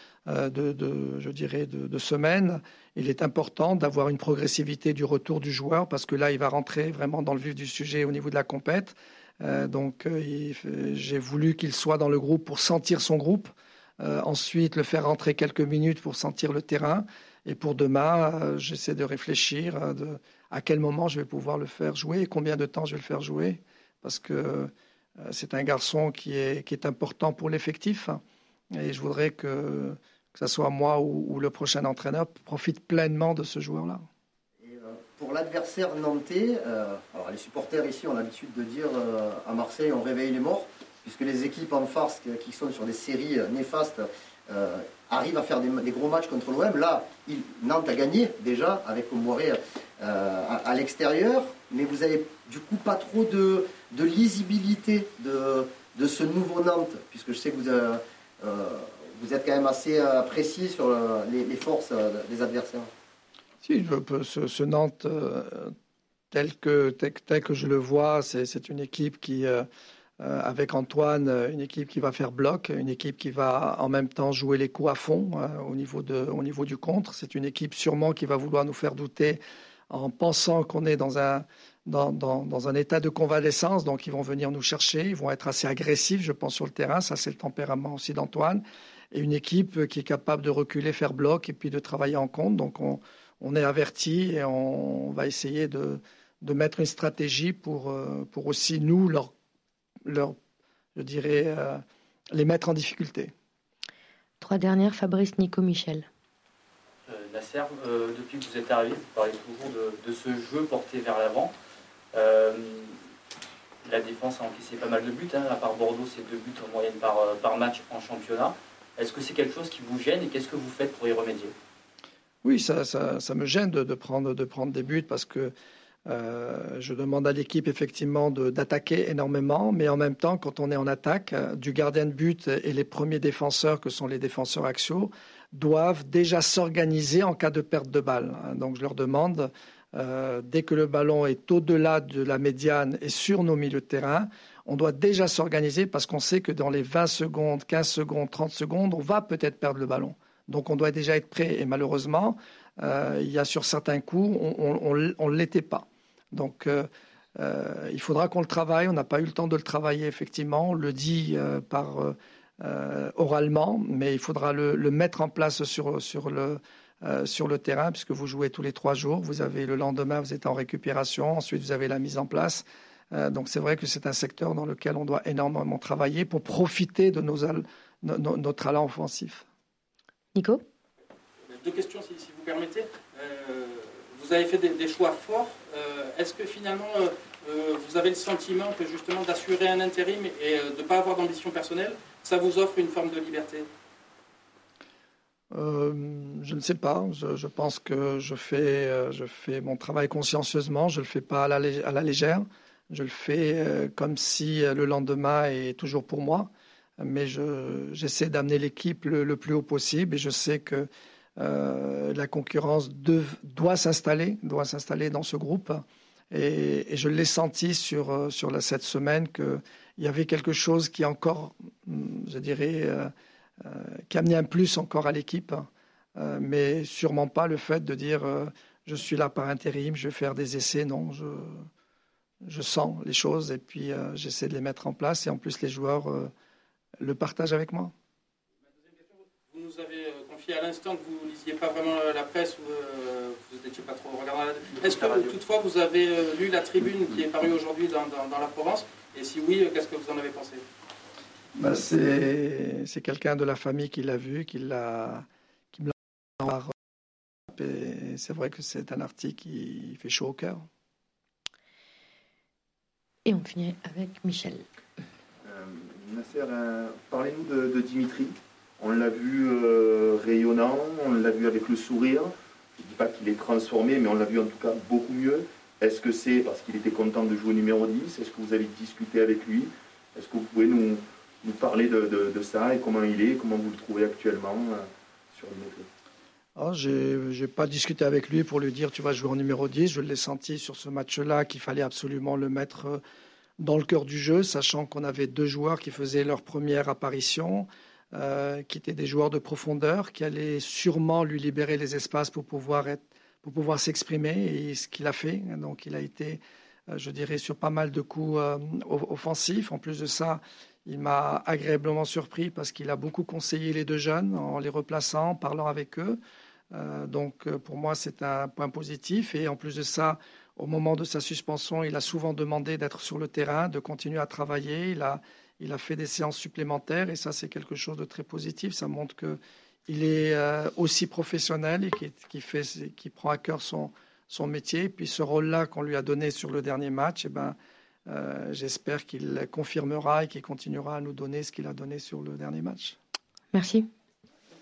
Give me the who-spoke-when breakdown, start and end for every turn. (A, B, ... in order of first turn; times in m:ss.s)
0:00.3-0:28.2 A
0:28.7-0:34.0 A
0:34.6-1:02.9 B
1:03.6-1:05.7 A
1:06.3-1:09.7 A
1:10.2-1:19.4 A
1:19.9-1:39.3 A
1:40.1-1:40.3 A
1:41.0-1:41.8 A
1:42.3-1:43.3 A
1:44.4-1:46.1 C
1:47.1-1:51.5 D
1:52.1-1:53.0 D
1:53.8-2:01.5 D
2:02.4-2:05.5 A
2:06.1-2:36.9 A
2:37.4-2:59.4 A
3:00.4-3:00.6 C
3:01.5-3:13.7 E
3:15.5-3:43.1 A
3:43.6-3:51.6 A
3:52.4-3:56.3 A
3:57.0-3:57.9 A
3:58.9-4:10.6 E
4:11.6-4:16.7 A
4:17.5-4:20.6 A
4:23.3-4:24.6 C
4:26.2-4:26.6 F
4:27.3-4:28.3 F
4:28.8-4:32.3 F
4:32.9-4:40.9 F
4:41.5-4:44.7 F
4:45.4-4:45.8 F
4:46.6-4:53.0 A
4:53.6-5:16.2 A
5:16.7-5:37.6 A
5:38.1-5:43.0 A
5:43.5-5:43.9 C